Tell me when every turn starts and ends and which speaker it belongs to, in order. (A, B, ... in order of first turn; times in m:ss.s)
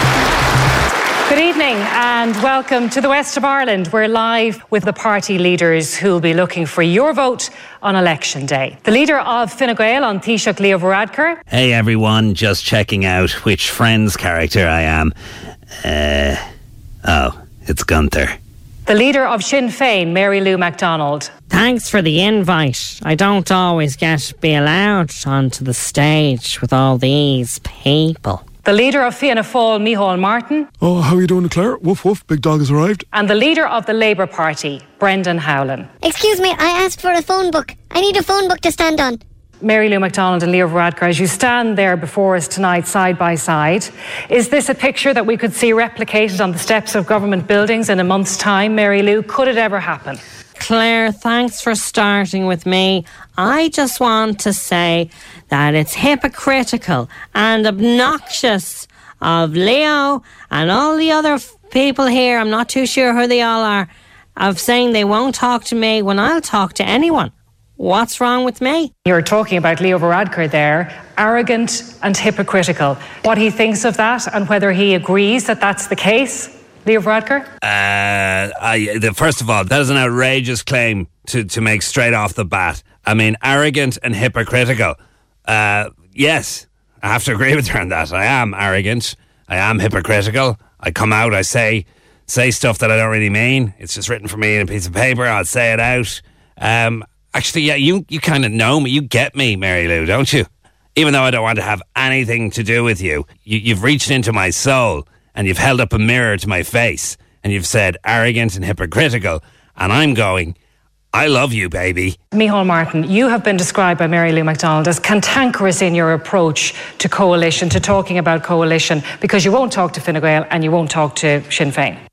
0:01.3-0:11.4 A
0:11.5-0:15.1 B
0:15.8-0:16.4 B
0:17.0-0:18.4 B
0:18.9-0:21.3 A
0:21.5-0:28.4 C
0:28.6-0:30.7 A
0:30.8-0:33.0 D
0:33.1-0:35.9 A
0:36.0-0:39.2 E
0:39.6-0:50.2 A
0:50.6-1:08.9 C
1:09.0-1:17.5 A
1:17.6-1:50.6 B
1:51.1-1:52.2 B
1:52.3-2:02.0 A